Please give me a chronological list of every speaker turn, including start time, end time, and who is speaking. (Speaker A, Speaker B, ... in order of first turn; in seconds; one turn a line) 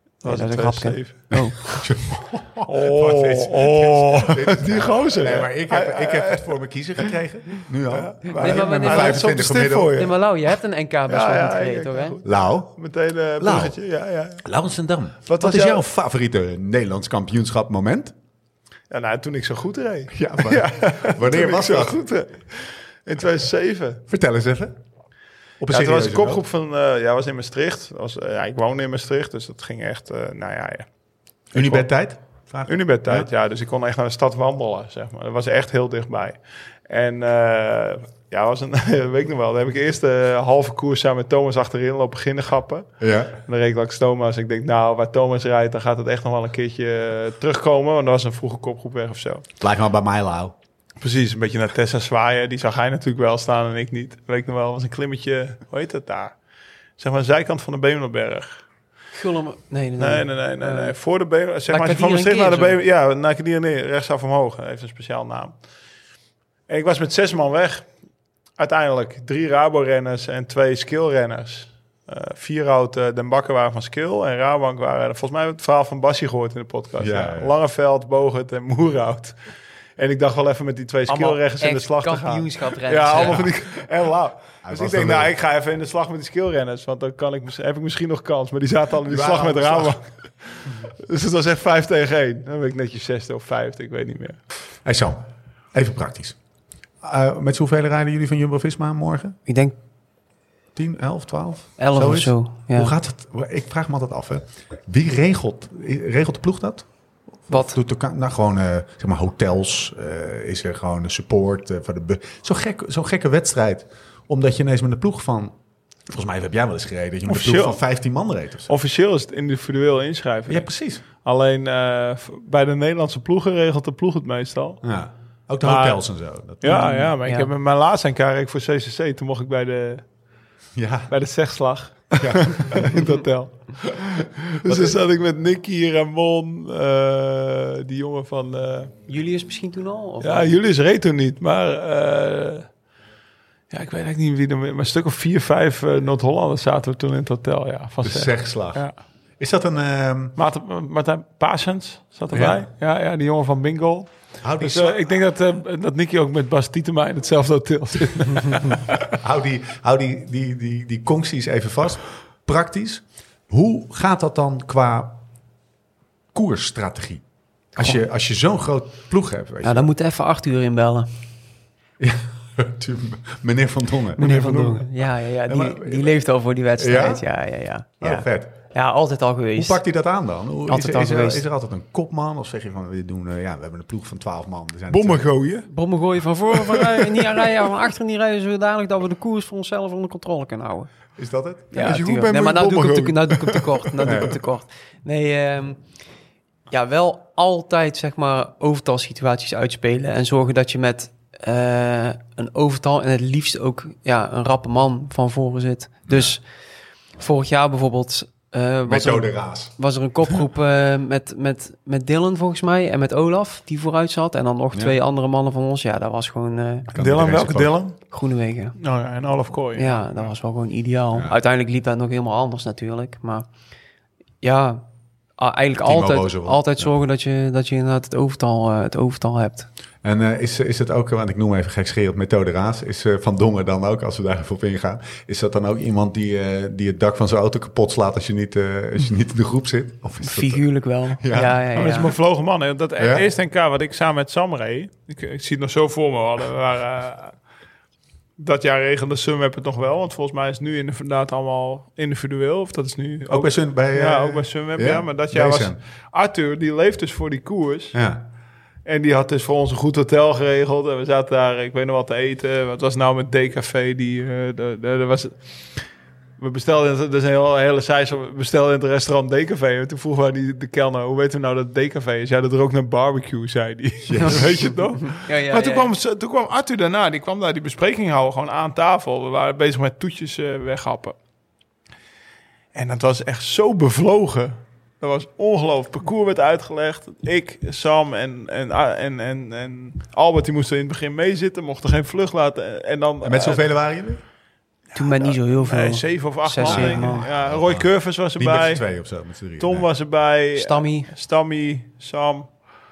Speaker A: 0.2-1.4
Speaker B: 0.2-1.9
Speaker C: 1.3-10.0
Speaker A: 2.6-7.1
Speaker A: 7.9-10.2
Speaker B: 8.3-12.2
Speaker A: 11.1-14.4
Speaker C: 12.2-12.8
Speaker C: 13.4-13.8
Speaker C: 14.4-18.1
Speaker A: 15.2-15.8
Speaker A: 18.9-24.0
Speaker C: 20.1-22.0
Speaker C: 24.1-24.8
Speaker C: 25.6-26.4
Speaker A: 25.7-30.9
Speaker A: 31.5-31.9
Speaker C: 31.5-33.3
Speaker A: 32.6-49.4
Speaker C: 43.0-43.3
Speaker C: 49.6-50.5
Speaker A: 51.0-56.4
Speaker A: 57.0-58.6
Speaker B: 59.1-61.0
Speaker A: 60.0-65.6
Speaker B: 61.7-62.8
Speaker A: 66.7-67.9
Speaker A: 68.6-79.4
Speaker C: 77.0-77.5
Speaker A: 80.0-94.4
Speaker B: 81.1-83.5
Speaker C: 83.2-83.5
Speaker C: 84.6-85.3
Speaker C: 89.1-90.0
Speaker C: 94.8-96.4
Speaker C: 97.0-99.4
Speaker B: 99.5-99.7
Speaker C: 100.7-106.8
Speaker B: 101.8-102.9
Speaker C: 107.5-115.5
Speaker B: 107.5-107.8
Speaker C: 116.1-118.7
Speaker A: 117.3-117.8
Speaker A: 118.7-120.7
Speaker C: 120.5-121.0
Speaker A: 121.2-124.8
Speaker C: 124.8-127.1
Speaker A: 125.6-126.0
Speaker A: 126.6-130.0
Speaker B: 126.7-127.5
Speaker C: 130.8-131.1
Speaker A: 131.1-138.9
Speaker C: 132.2-132.9
Speaker C: 134.6-135.0
Speaker B: 139.1-140.5
Speaker A: 140.2-142.7
Speaker A: 143.7-148.9
Speaker C: 148.0-148.8
Speaker C: 149.4-150.4
Speaker A: 150.3-159.0
Speaker C: 152.3-152.6
Speaker C: 154.4-155.0
Speaker C: 159.1-165.2
Speaker C: 166.3-167.2
Speaker B: 167.8-168.0
Speaker C: 167.8-169.9
Speaker B: 169.6-171.1
Speaker C: 172.0-174.8
Speaker B: 174.2-179.8
Speaker C: 175.5-176.2
Speaker C: 176.8-177.2
Speaker C: 178.0-178.6
Speaker C: 179.6-185.3
Speaker B: 180.7-181.4
Speaker A: 184.9-185.7
Speaker B: 185.7-190.9
Speaker A: 186.7-187.2
Speaker C: 191.2-192.1
Speaker B: 191.7-195.8
Speaker A: 191.8-193.7
Speaker C: 194.0-194.3
Speaker B: 196.7-206.4
Speaker C: 206.1-206.3
Speaker B: 207.2-216.9
Speaker C: 208.8-209.7
Speaker C: 216.9-217.8
Speaker A: 216.9-218.0
Speaker B: 218.1-218.8
Speaker A: 218.8-220.3
Speaker B: 219.8-223.5
Speaker B: 224.4-224.8
Speaker B: 225.4-229.7
Speaker C: 225.8-226.9
Speaker C: 230.0-240.6
Speaker B: 240.2-242.1
Speaker C: 241.2-241.7
Speaker A: 241.7-247.4
Speaker C: 243.0-243.3
Speaker A: 248.4-258.0
Speaker C: 253.3-255.8
Speaker C: 257.9-258.2
Speaker A: 258.8-265.8
Speaker A: 266.4-281.1
Speaker C: 274.1-274.7
Speaker B: 274.2-275.9
Speaker A: 282.7-293.6
Speaker C: 293.2-294.2
Speaker B: 294.9-297.2
Speaker A: 294.9-298.9
Speaker C: 296.6-299.9
Speaker A: 299.6-302.6
Speaker B: 300.5-301.1